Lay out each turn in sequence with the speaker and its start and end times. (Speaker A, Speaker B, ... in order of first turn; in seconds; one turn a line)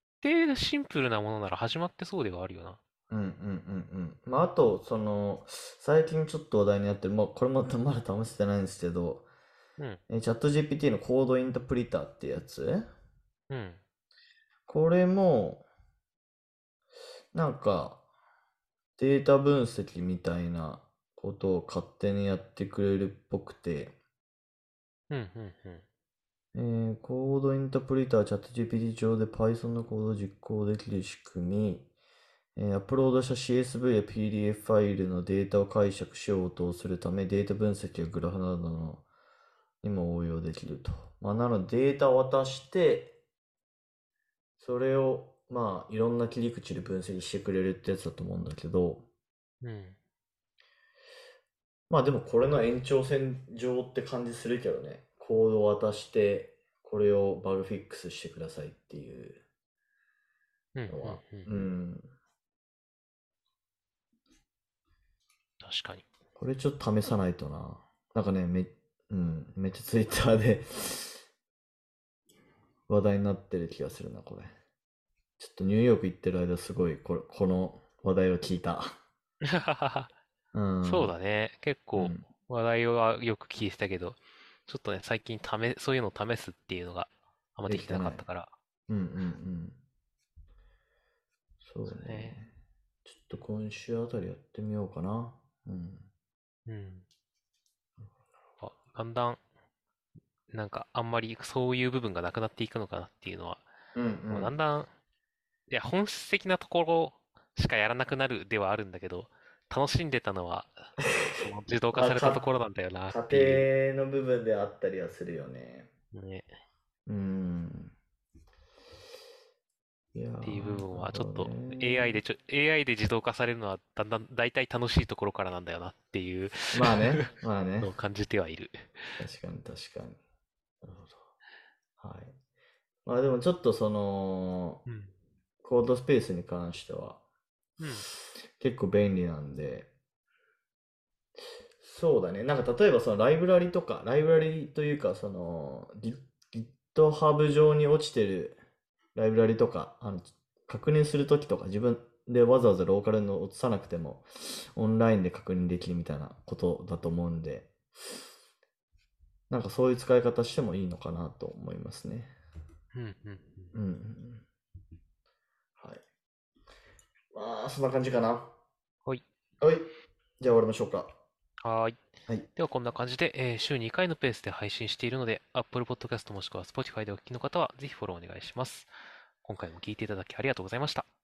Speaker A: 0.2-2.8
Speaker B: 3.1-9.2
Speaker B: 10.1-12.9
Speaker A: 13.5-13.8
Speaker B: 14.7-15.7
Speaker B: 17.3-18.0
Speaker B: 19.0-23.9
Speaker A: 25.1-25.8
Speaker B: 26.5-31.9
Speaker B: 32.5-39.1
Speaker B: 39.8-43.2
Speaker B: 44.6-49.0
Speaker A: 49.6-50.0
Speaker B: 51.9-59.4
Speaker A: 60.7-61.5
Speaker B: 60.9-62.1
Speaker A: 65.6-66.1
Speaker B: 66.4-71.2
Speaker B: 72.9-74.5
Speaker B: 75.4-78.9
Speaker A: 79.5-80.1
Speaker B: 80.5-81.1
Speaker A: 80.8-88.5
Speaker B: 82.0-82.3
Speaker B: 87.7-88.2
Speaker B: 88.9-89.8
Speaker B: 91.6-92.5
Speaker A: 91.9-92.4
Speaker B: 93.0-96.1
Speaker A: 96.7-97.0
Speaker A: 98.6-99.4
Speaker A: 100.5-103.7
Speaker B: 103.9-104.5
Speaker A: 104.3-104.9
Speaker A: 105.7-113.7
Speaker B: 111.0-112.4
Speaker B: 113.1-115.9
Speaker A: 116.1-116.5
Speaker B: 117.1-117.9
Speaker B: 120.1-122.2
Speaker A: 120.4-127.2
Speaker B: 126.7-127.9
Speaker A: 127.8-128.9
Speaker B: 129.2-130.2
Speaker B: 130.8-131.2
Speaker B: 132.0-132.3
Speaker B: 133.1-134.8
Speaker A: 134.8-135.1
Speaker B: 135.6-137.2
Speaker A: 137.8-138.1
Speaker B: 138.6-139.9
Speaker B: 141.8-148.6
Speaker B: 149.1-157.7
Speaker B: 159.5-162.3
Speaker A: 162.9-163.8
Speaker B: 163.7-164.4
Speaker B: 165.8-166.0
Speaker B: 167.3-168.5
Speaker B: 169.6-169.9
Speaker B: 170.4-171.1
Speaker A: 171.6-172.0
Speaker A: 172.6-178.9
Speaker A: 179.4-181.1